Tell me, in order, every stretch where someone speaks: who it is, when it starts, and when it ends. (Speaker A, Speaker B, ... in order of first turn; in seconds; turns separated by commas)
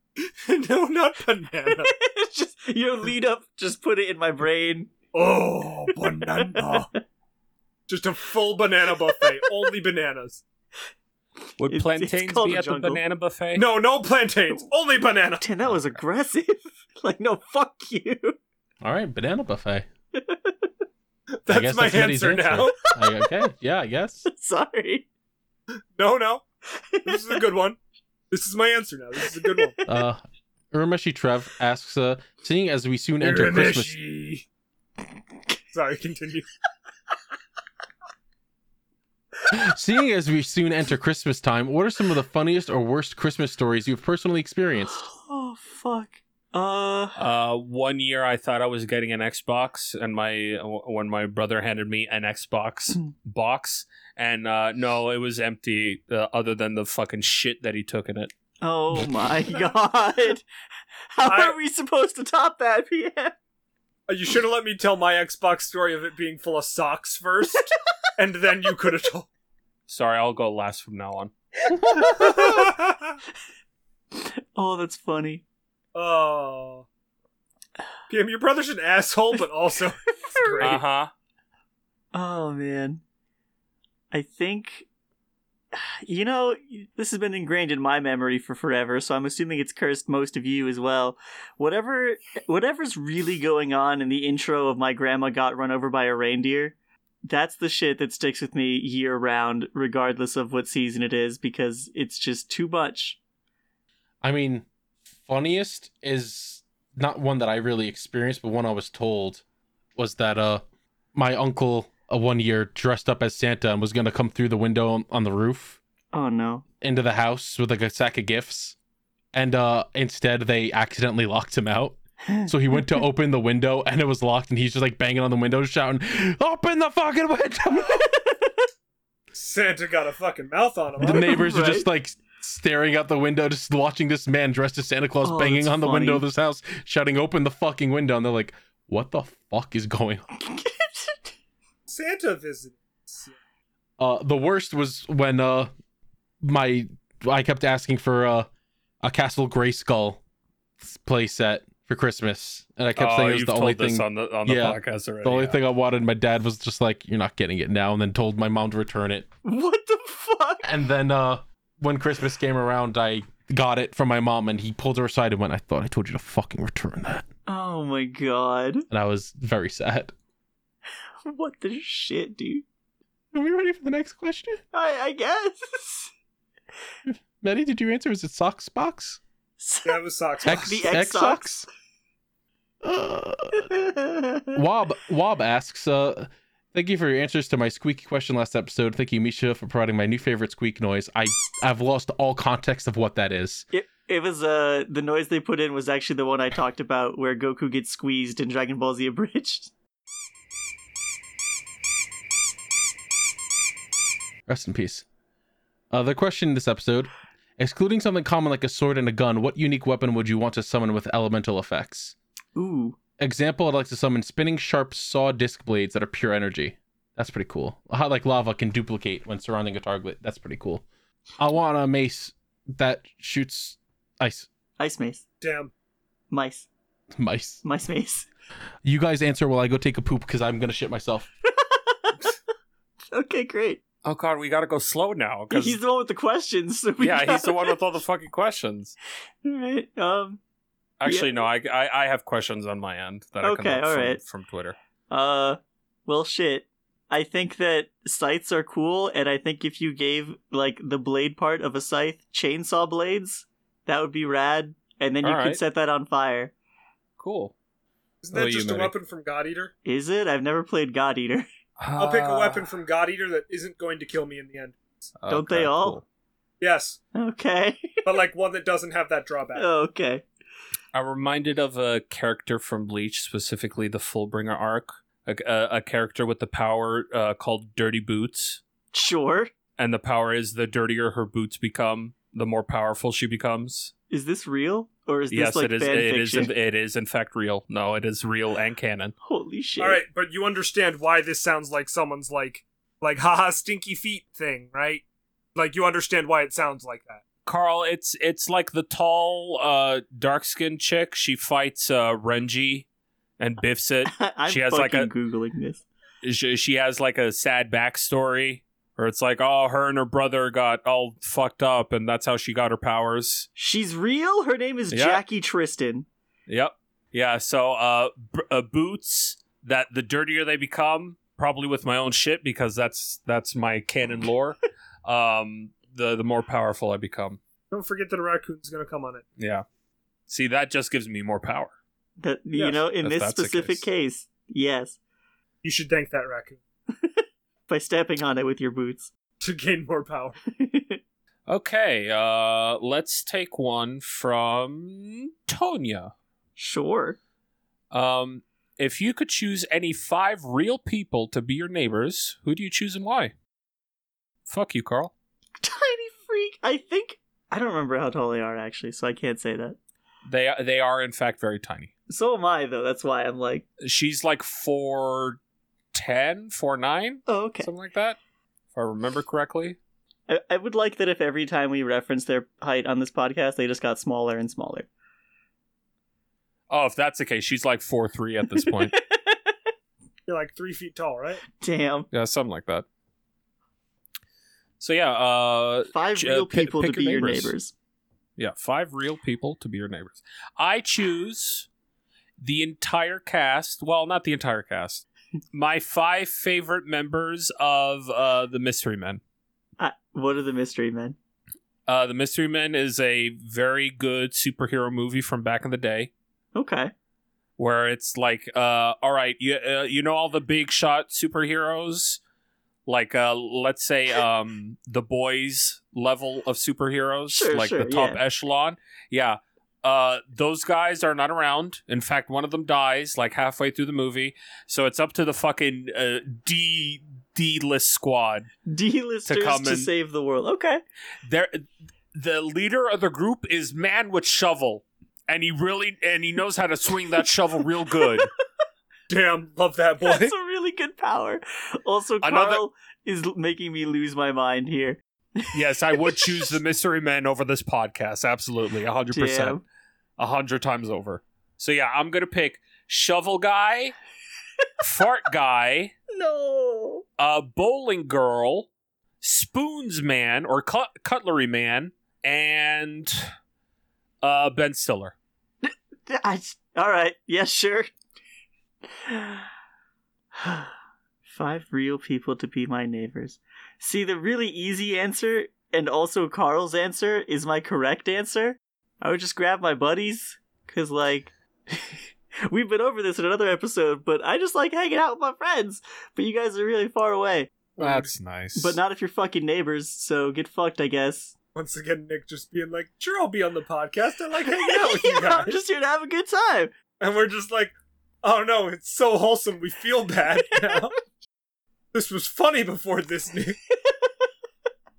Speaker A: 0.2-1.9, Speaker B: 1.7-4.9, Speaker A: 5.1-6.9, Speaker B: 6.3-6.8, Speaker A: 7.9-10.4, Speaker B: 9.2-9.7, Speaker C: 11.6-13.7, Speaker B: 11.7-13.0, Speaker A: 13.5-15.4, Speaker B: 15.4-18.4, Speaker D: 18.8-19.9, Speaker B: 20.1-20.7, Speaker A: 21.4-22.8, Speaker D: 21.5-24.3, Speaker B: 24.3-25.1, Speaker A: 25.9-26.4, Speaker B: 26.8-27.4, Speaker A: 27.1-27.8, Speaker A: 28.3-29.8, Speaker B: 29.4-30.0, Speaker D: 29.9-30.2, Speaker D: 30.7-34.0, Speaker A: 33.2-34.4, Speaker A: 35.7-36.5, Speaker D: 39.5-45.0, Speaker B: 45.0-47.2, Speaker C: 47.2-58.3, Speaker B: 58.6-60.4, Speaker B: 61.1-63.3, Speaker A: 61.2-61.5, Speaker A: 64.1-69.3, Speaker C: 69.9-71.3, Speaker B: 71.9-72.5, Speaker A: 72.0-73.2, Speaker B: 74.1-75.4, Speaker A: 75.9-76.8, Speaker A: 78.1-80.8, Speaker C: 80.6-81.1, Speaker B: 82.1-83.0, Speaker B: 84.1-84.8, Speaker B: 85.7-96.7, Speaker B: 97.2-103.2, Speaker D: 104.2-104.7, Speaker D: 105.2-109.4, Speaker D: 110.0-110.6, Speaker D: 111.1-115.8, Speaker B: 116.1-116.6, Speaker D: 116.8-118.8, Speaker D: 119.3-128.2, Speaker B: 122.2-122.9, Speaker A: 129.3-131.4, Speaker B: 131.0-131.9, Speaker D: 131.0-140.2, Speaker B: 135.2-136.2, Speaker B: 140.4-141.3, Speaker A: 141.9-143.3, Speaker D: 144.0-145.7, Speaker D: 146.4-148.5, Speaker D: 149.0-150.2, Speaker D: 150.8-159.3, Speaker C: 153.0-155.6, Speaker B: 159.4-160.7, Speaker D: 160.6-167.2, Speaker B: 167.5-168.8, Speaker D: 168.9-170.1, Speaker B: 171.2-172.6, Speaker D: 173.3-174.6, Speaker B: 174.7-176.1, Speaker D: 177.1-179.2, Speaker B: 179.6-181.6, Speaker A: 179.8-180.8, Speaker D: 180.4-181.7, Speaker D: 182.8-183.7, Speaker B: 183.7-184.5, Speaker D: 184.5-193.7, Speaker B: 193.7-199.7, Speaker D: 204.5-205.0, Speaker D: 205.9-212.1, Speaker B: 212.6-213.0, Speaker D: 213.2-220.8, Speaker D: 221.4-224.5, Speaker B: 224.8-225.2, Speaker A: 225.4-225.7, Speaker B: 226.3-226.7, Speaker D: 227.1-227.6, Speaker B: 227.6-228.3, Speaker D: 228.8-231.3, Speaker B: 231.5-232.2, Speaker B: 233.1-233.8, Speaker C: 234.0-235.8, Speaker B: 235.5-237.8, Speaker C: 237.0-238.9, Speaker B: 239.4-240.4, Speaker C: 241.0-244.8, Speaker B: 241.0-241.4, Speaker B: 243.4-244.2, Speaker B: 245.1-256.5, Speaker C: 255.2-255.6, Speaker C: 257.2-257.5, Speaker A: 258.2-259.7, Speaker C: 258.3-258.9, Speaker B: 259.8-261.4, Speaker C: 261.8-262.7, Speaker A: 262.0-265.0, Speaker C: 265.2-266.0, Speaker B: 265.3-266.0, Speaker A: 266.6-267.0, Speaker B: 267.1-268.0, Speaker A: 268.0-269.7, Speaker B: 269.6-270.2, Speaker C: 270.9-278.6, Speaker B: 278.9-279.5, Speaker C: 279.8-283.9, Speaker B: 284.1-286.5, Speaker C: 285.3-289.1, Speaker B: 289.2-290.0, Speaker A: 289.8-295.0, Speaker A: 295.5-297.2, Speaker C: 297.4-302.9, Speaker C: 303.4-305.1, Speaker B: 304.1-305.8, Speaker C: 306.2-313.5, Speaker B: 313.6-316.1, Speaker C: 314.9-315.2, Speaker C: 316.5-327.4, Speaker A: 327.7-329.2, Speaker C: 329.4-329.6, Speaker C: 330.3-331.7, Speaker B: 332.2-335.0, Speaker A: 332.6-332.8, Speaker C: 333.0-333.9, Speaker A: 335.6-336.6, Speaker B: 336.9-339.1, Speaker A: 339.4-340.4, Speaker B: 340.5-341.0, Speaker C: 341.5-346.1, Speaker B: 346.6-347.2, Speaker C: 347.9-353.3, Speaker C: 354.5-355.1, Speaker B: 355.6-359.8, Speaker C: 360.3-361.9, Speaker B: 362.1-363.6, Speaker C: 363.8-365.4, Speaker C: 365.9-368.2, Speaker B: 367.3-367.7, Speaker C: 368.7-369.8, Speaker B: 370.3-374.9, Speaker C: 376.7-378.9, Speaker B: 378.6-379.5, Speaker A: 380.3-381.4, Speaker B: 381.6-382.1, Speaker C: 382.1-382.9, Speaker C: 384.8-387.5, Speaker B: 385.9-387.7, Speaker C: 388.4-391.7, Speaker C: 392.4-399.2, Speaker B: 399.8-401.2, Speaker C: 401.9-406.1, Speaker B: 406.5-406.9, Speaker C: 407.6-412.2, Speaker C: 412.9-428.5, Speaker B: 417.3-418.2, Speaker B: 428.7-430.8, Speaker C: 429.3-429.9, Speaker C: 431.2-438.3, Speaker A: 439.1-440.3, Speaker B: 440.0-446.6, Speaker C: 442.2-442.6, Speaker C: 445.5-449.6, Speaker B: 449.1-449.6, Speaker C: 450.2-453.9, Speaker C: 454.8-455.9, Speaker B: 456.1-457.0, Speaker C: 457.2-458.7, Speaker C: 459.2-463.2, Speaker C: 464.2-465.1, Speaker B: 465.6-467.9, Speaker B: 469.0-469.5, Speaker B: 470.4-470.7, Speaker B: 471.2-482.0, Speaker B: 482.5-487.5, Speaker A: 487.8-488.1, Speaker C: 487.8-488.8, Speaker B: 488.6-491.3, Speaker A: 491.5-495.6, Speaker B: 494.5-496.7, Speaker A: 497.0-500.9, Speaker A: 501.9-503.6